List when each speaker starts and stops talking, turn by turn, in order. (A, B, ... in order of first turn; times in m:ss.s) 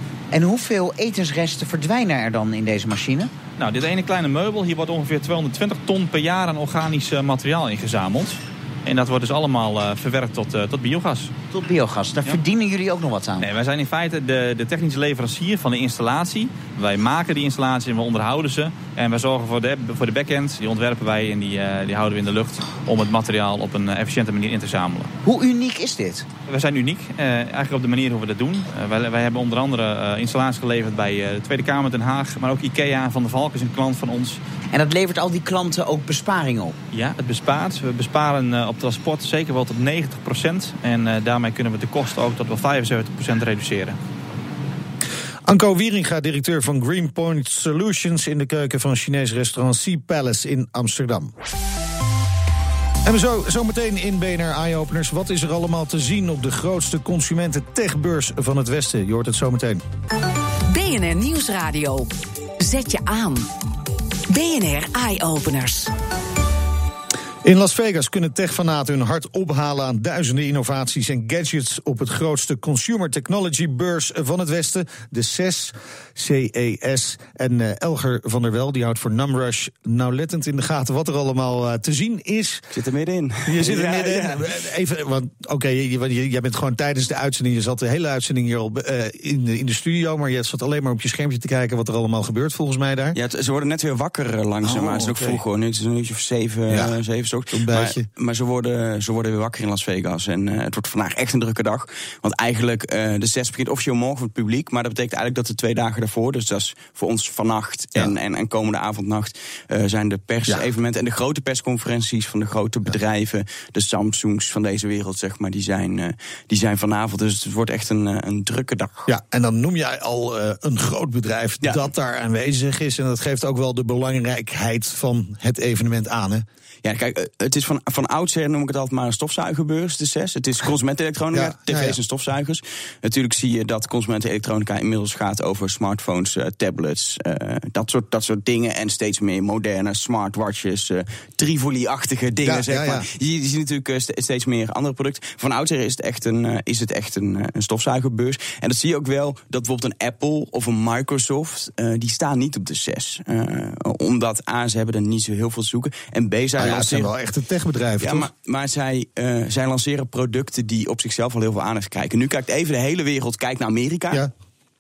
0:00.3-0:03.3 A
0:03.6-0:11.3 B
0:11.5-0:13.5 A
0:13.4-0:25.1 B
0:25.2-0:26.3 A
0:26.5-0:34.4 B
0:34.7-0:36.8 A
0:36.9-0:44.0 B
0:45.4-0:51.3 C
0:53.0-0:59.8 C
1:00.7-1:03.5 D
1:04.3-1:05.9 D
1:07.4-1:22.7 C
1:22.7-1:24.5 E
1:23.5-1:33.2 C
1:33.1-1:59.1 E
1:34.6-1:35.4 C
1:36.7-1:36.9 C
1:37.5-1:38.1 C
1:59.1-2:06.4 C
2:06.8-2:37.1 E
2:11.3-2:12.0 C
2:22.4-2:23.1 C
2:36.6-2:38.3 C
2:38.0-2:44.2 E